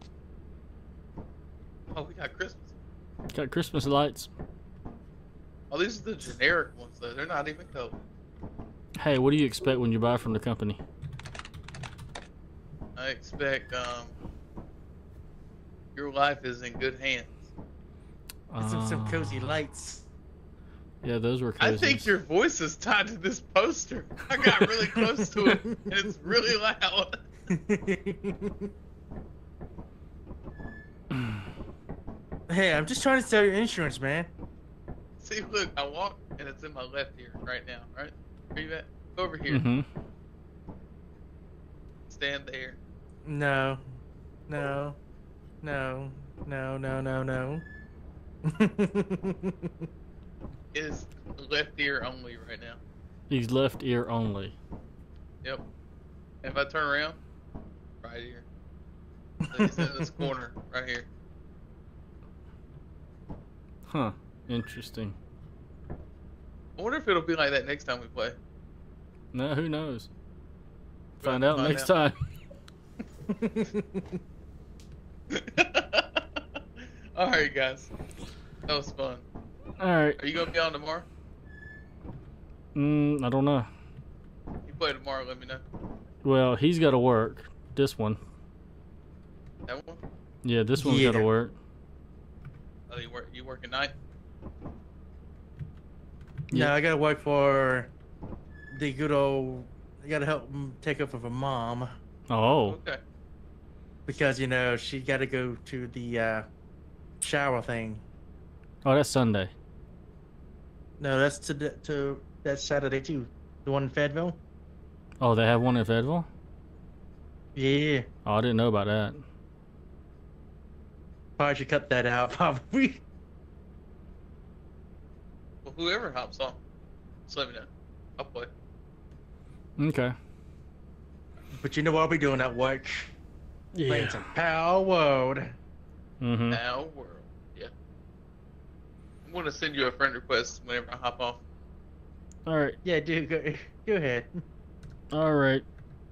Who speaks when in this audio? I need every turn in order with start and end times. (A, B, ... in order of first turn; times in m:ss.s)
0:01.9-0:02.7 A
0:03.3-0:04.3 B
0:05.7-0:08.0 A
0:09.0-0:10.8 B
0:13.0-0:14.1 A
0:16.0-0:17.4 A
0:18.5-0:19.5 B
0:18.6-0:20.1 C
0:21.0-0:22.1 B
0:21.6-0:27.2 A
0:25.2-0:25.9 C
0:27.5-0:28.7 C
0:31.1-0:31.5 B
0:32.5-0:34.3 C
0:35.2-0:39.6 A
0:39.5-0:39.9 B
0:42.1-0:42.8 A
0:43.3-0:43.8 C
0:44.5-0:45.0 C
0:45.6-0:47.6 C
0:48.4-0:49.7 C
0:50.7-0:52.8 A
0:53.3-0:54.6 B
0:56.4-0:57.2 A
0:58.0-0:58.4 A
0:59.4-1:00.3 C
0:59.5-1:01.1 A
1:03.9-1:05.2 B
1:06.8-1:08.4 A
1:09.3-1:10.1 B
1:11.2-1:11.9 A
1:11.2-1:12.2 B
1:13.3-1:14.2 C
1:15.3-1:16.2 A
1:16.8-1:17.9 A
1:18.7-1:19.2 A
1:19.8-1:20.2 B
1:20.2-1:21.1 A
1:22.8-1:23.7 B
1:24.6-1:25.6 A
1:26.2-1:28.2 B
1:29.7-1:30.0 A
1:30.4-1:31.6 B
1:30.8-1:31.3 C
1:32.9-1:33.9 A
1:36.5-1:37.9 C
1:38.7-1:41.9 C
1:42.3-1:42.8 B
1:42.7-1:43.0 A
1:44.1-1:46.5 C
1:47.2-1:48.0 C
1:48.8-1:49.5 B
1:51.0-1:54.4 C
1:55.2-1:56.3 B
1:57.6-1:58.1 C
1:58.2-1:59.2 B
2:01.4-2:03.0 C
2:05.6-2:06.6 A
2:07.3-2:08.5 A
2:09.8-2:10.1 B
2:11.6-2:13.1 C
2:13.7-2:14.3 B
2:13.9-2:15.5 C
2:16.2-2:16.6 B
2:16.5-2:17.7 A
2:19.2-2:21.4 A
2:22.5-2:22.8 B
2:22.8-2:24.3 C
2:25.1-2:25.6 B